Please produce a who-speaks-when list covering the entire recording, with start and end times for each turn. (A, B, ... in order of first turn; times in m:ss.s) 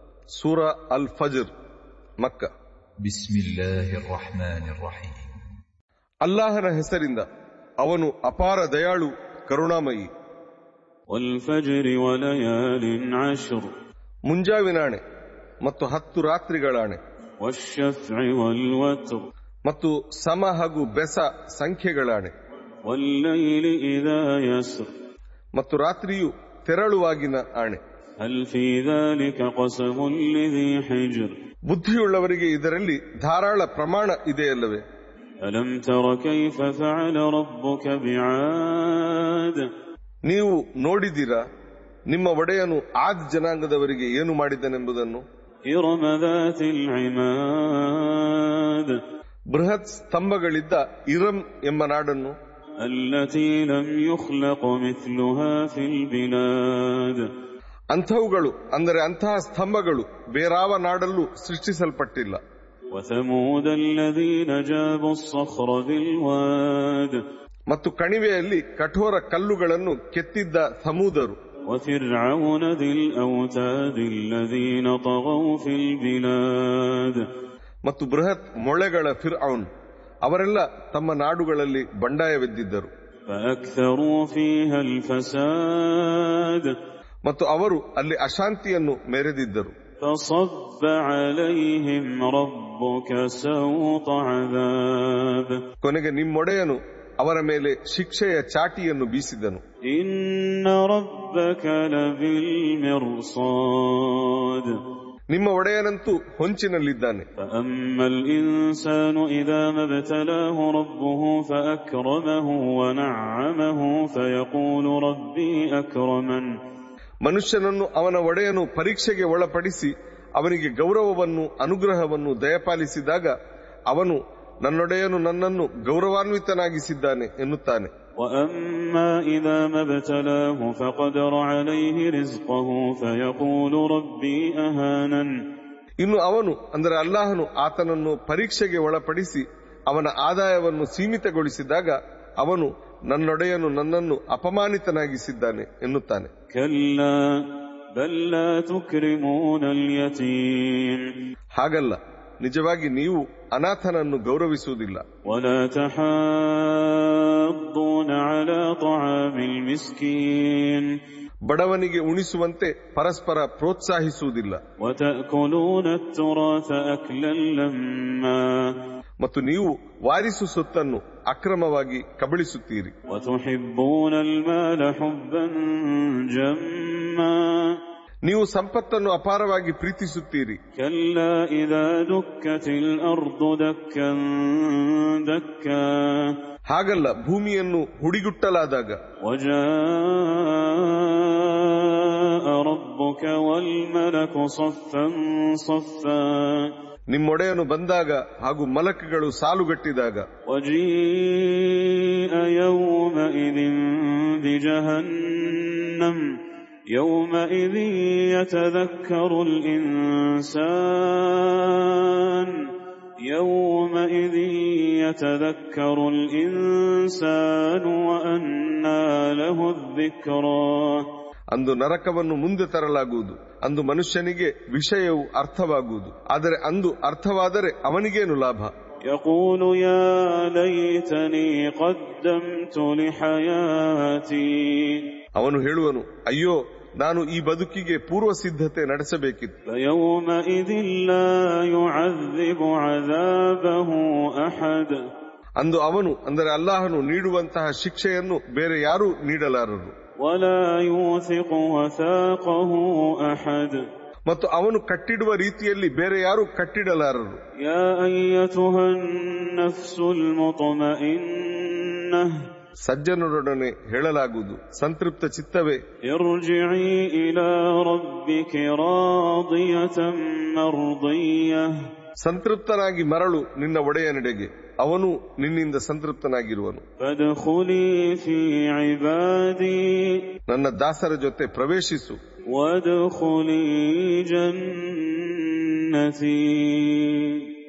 0:00.3-0:01.5 A
0:02.2-0:02.5 A
0:03.0-0:05.3 B
0:06.2-0:07.2 A
0:07.8-0:10.1 A
0:11.1-0:13.7 C
0:14.3-0:15.0 A
0:15.6-0:17.0 A
0:17.4-0:19.2 C
0:19.6-0:22.3 A
0:22.8-0:24.9 C
0:25.6-0:27.8 A
0:28.2-0:31.3 C
0:31.7-0:34.8 A
0:35.4-0:39.7 C
0:40.3-0:41.4 A
0:42.1-0:45.2 A
0:45.7-0:49.0 C
0:49.5-0:52.3 A
0:52.8-0:57.3 C
0:57.9-1:02.4 A
1:02.9-1:07.2 C
1:07.7-1:11.4 A
1:11.7-1:17.2 C
1:17.8-1:19.7 A
1:20.2-1:22.9 A
1:23.3-1:26.8 C
1:27.2-1:29.7 A
1:30.0-1:35.6 C
1:35.8-1:39.6 A
1:39.9-1:44.8 C
1:45.3-1:47.2 A
1:47.4-1:56.5 C
1:57.2-2:03.3 A
2:03.9-2:07.9 A
2:08.2-2:15.3 C
2:16.0-2:26.3 A
2:26.5-2:31.1 C
2:31.6-2:35.0 A
2:35.2-2:41.0 C
2:41.5-2:44.6 A
2:44.8-2:48.8 C
2:49.2-2:52.9 A
2:53.1-2:57.8 C
2:58.2-3:00.6 A
3:00.8-3:06.4 C
3:06.7-3:09.0 A
3:09.2-3:16.7 C
3:17.1-3:20.2 A
3:20.5-3:26.4 C
3:26.9-3:32.7 C
3:33.3-3:41.1 C
3:41.5-3:48.7 A
3:49.0-3:55.1 C
3:55.4-3:59.5 A
3:59.7-4:05.0 C
4:05.6-4:09.9 A
4:10.2-4:13.8 C
4:14.3-4:17.4 A
4:17.6-4:22.4 C
4:22.8-4:25.8 A
4:26.0-4:31.7 C
4:32.2-4:36.8 A
4:37.0-4:40.2 C
4:40.5-4:42.2 A
4:42.5-4:47.5 C